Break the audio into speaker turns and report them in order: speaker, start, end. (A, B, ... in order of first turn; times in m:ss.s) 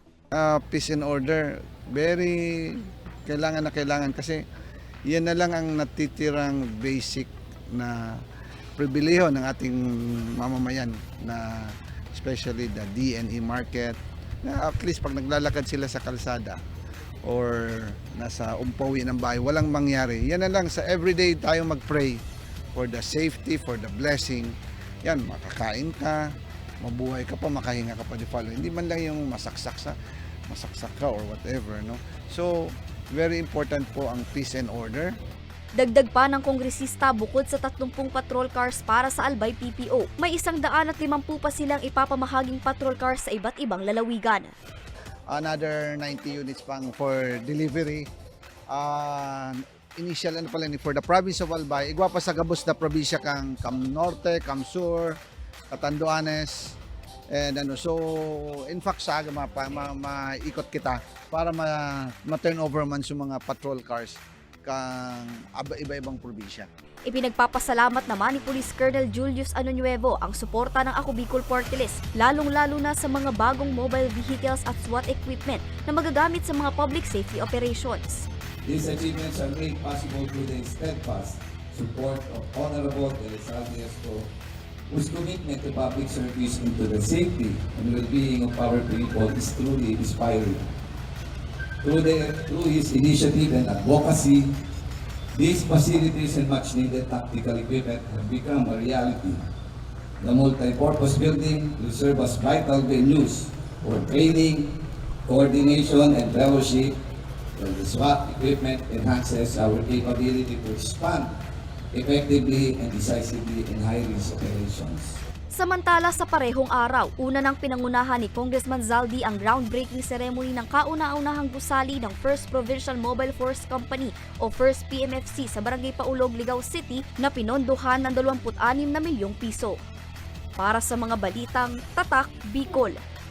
0:00.4-0:02.4 A
0:03.3-0:04.4 A
0:05.1-0:08.0 A
0:08.8-0:11.4 A
0:12.1-0:16.6 A
0:17.3-0:22.2 A
0:22.8-0:24.5 A
0:25.0-0:26.2 A
0:26.8-0:29.9 A
0:30.5-0:32.5 A
0:33.2-0:35.1 A
0:35.8-0:44.5 B
0:45.3-0:48.0 A
0:48.7-0:55.2 A
0:55.7-0:56.8 A
0:57.3-1:04.2 A
1:04.7-1:06.7 A
1:07.1-1:18.2 B
1:18.6-1:24.3 C
1:24.9-1:30.7 C
1:31.8-1:34.5 C
1:35.3-1:39.4 C
1:40.2-1:44.7 C
1:45.2-1:46.9 C
1:47.6-1:51.3 C
1:51.9-1:55.2 C
1:55.5-2:09.8 B
2:10.6-2:13.0 B